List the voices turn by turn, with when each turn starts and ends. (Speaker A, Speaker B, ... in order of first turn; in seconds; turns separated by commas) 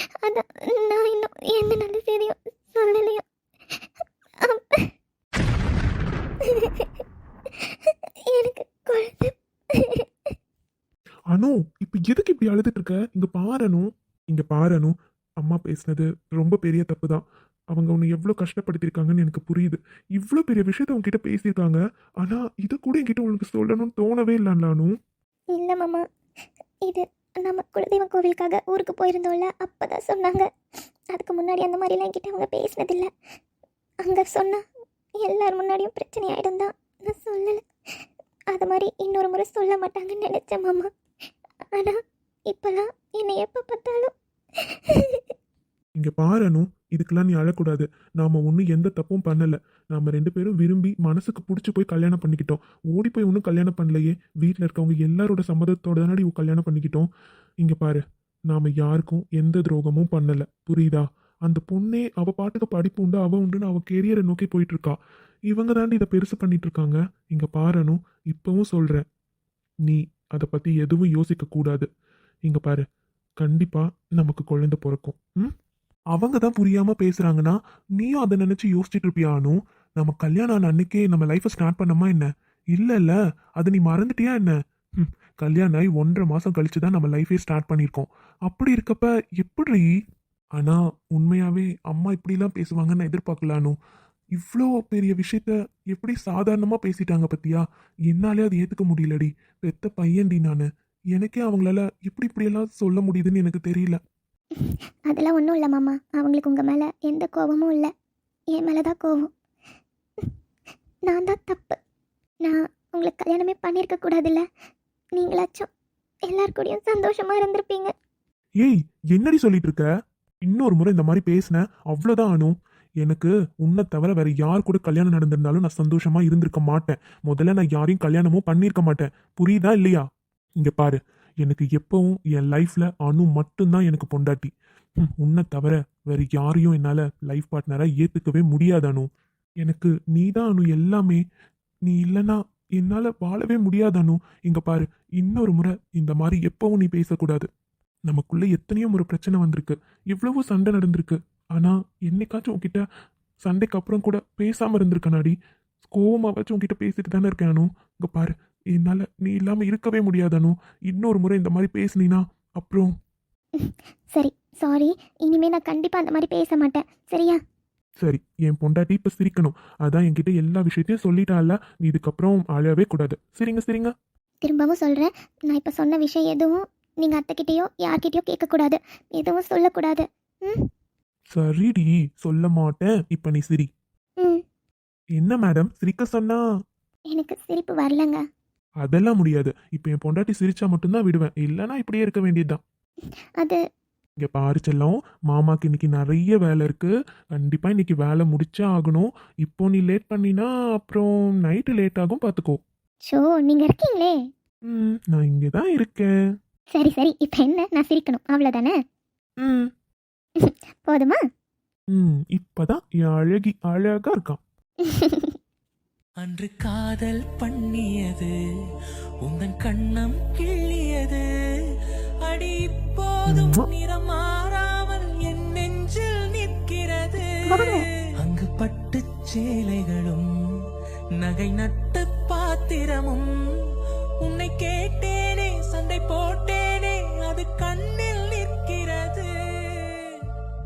Speaker A: 0.2-3.2, Speaker A: 4.4-4.9, Speaker A: 6.4-7.0, Speaker A: 7.6-10.3, Speaker B: 11.3-24.9, Speaker A: 25.5-26.1, Speaker A: 26.9-30.5, Speaker A: 31.1-33.1, Speaker A: 34.0-34.6, Speaker A: 35.2-37.6, Speaker A: 38.5-40.9, Speaker A: 41.7-44.1, Speaker A: 44.7-45.2, Speaker B: 46.0-57.1, Speaker B: 57.6-65.0, Speaker B: 65.5-69.0, Speaker B: 69.8-71.9, Speaker B: 72.5-72.8, Speaker B: 73.4-75.5, Speaker B: 76.1-89.9, Speaker B: 90.6-93.8, Speaker B: 94.4-104.0, Speaker A: 104.6-107.9, Speaker A: 108.5-109.3, Speaker A: 111.1-111.8, Speaker A: 112.5-114.5, Speaker A: 115.2-115.7, Speaker A: 116.3-117.9, Speaker B: 118.6-119.9, Speaker B: 120.5-130.1, Speaker B: 130.6-139.1, Speaker B: 139.6-141.2, Speaker B: 141.9-147.5, Speaker B: 148.1-152.8, Speaker B: 153.4-155.4, Speaker B: 155.9-162.9, Speaker A: 163.6-167.4, Speaker B: 168.0-173.9, Speaker A: 174.4-180.7, Speaker B: 181.3-183.7, Speaker B: 185.2-186.4, Speaker A: 187.1-188.2, Speaker B: 188.8-192.6, Speaker B: 194.2-202.6, Speaker A: 203.1-204.2, Speaker B: 204.7-206.1, Speaker A: 206.8-208.8, Speaker B: 209.4-209.7, Speaker A: 210.4-211.2, Speaker B: 211.9-214.4, Speaker A: 214.8-215.3, Speaker C: 216.2-218.3, Speaker C: 219.3-221.2, Speaker C: 222.3-230.2, Speaker B: 223.3-223.7, Speaker A: 227.5-227.9, Speaker C: 231.2-233.3, Speaker C: 234.2-240.0